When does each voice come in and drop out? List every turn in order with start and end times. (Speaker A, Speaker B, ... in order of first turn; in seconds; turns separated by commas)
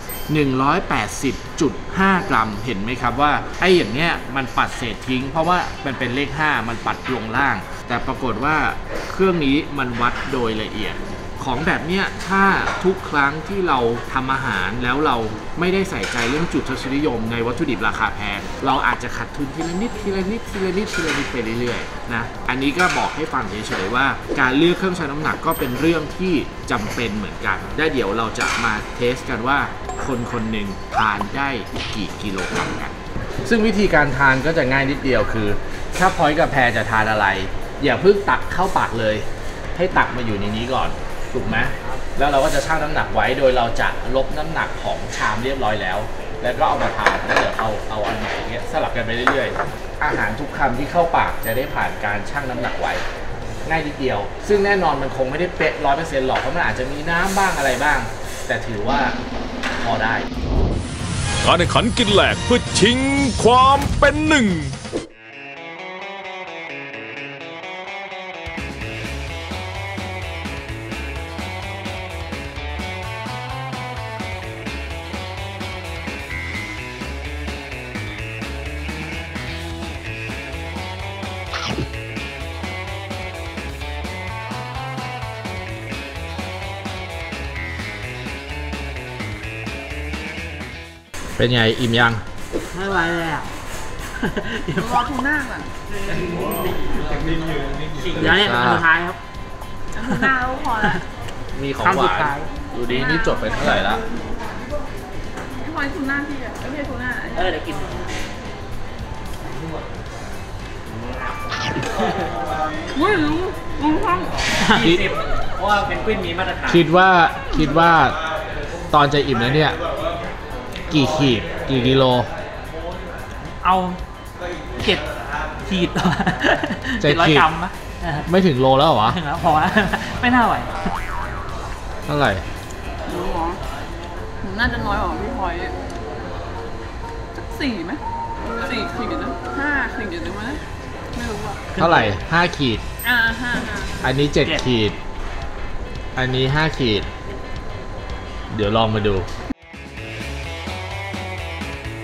Speaker A: 0.3-53.0, Speaker A: 53.6-59.2, Speaker A: 59.7-60.3, Speaker B: 61.4-64.7, Speaker A: 91.4-92.2, Speaker C: 92.7-93.5, Speaker C: 94.2-95.0, Speaker D: 94.7-95.7, Speaker C: 97.9-99.2, Speaker A: 98.2-98.9, Speaker D: 99.9-101.0, Speaker C: 100.0-101.0, Speaker A: 101.5-104.0, Speaker C: 101.8-102.5, Speaker D: 102.9-104.0, Speaker D: 105.5-107.8, Speaker C: 107.4-108.1, Speaker C: 111.0-112.0, Speaker D: 112.9-114.5, Speaker C: 114.6-116.8, Speaker A: 114.8-115.1, Speaker A: 116.7-118.2, Speaker A: 118.9-119.8, Speaker A: 120.9-122.3, Speaker C: 123.6-124.0, Speaker C: 124.8-125.1, Speaker C: 125.6-128.3, Speaker A: 127.0-127.5, Speaker A: 128.2-129.2, Speaker C: 129.1-130.8, Speaker A: 132.1-132.4, Speaker D: 133.1-133.6, Speaker D: 134.4-135.7, Speaker D: 137.3-138.0, Speaker D: 138.6-140.6, Speaker D: 141.1-141.7, Speaker C: 141.8-142.1, Speaker A: 141.8-142.8, Speaker D: 143.0-144.0, Speaker A: 144.0-145.0, Speaker A: 146.2-147.1, Speaker A: 148.5-149.3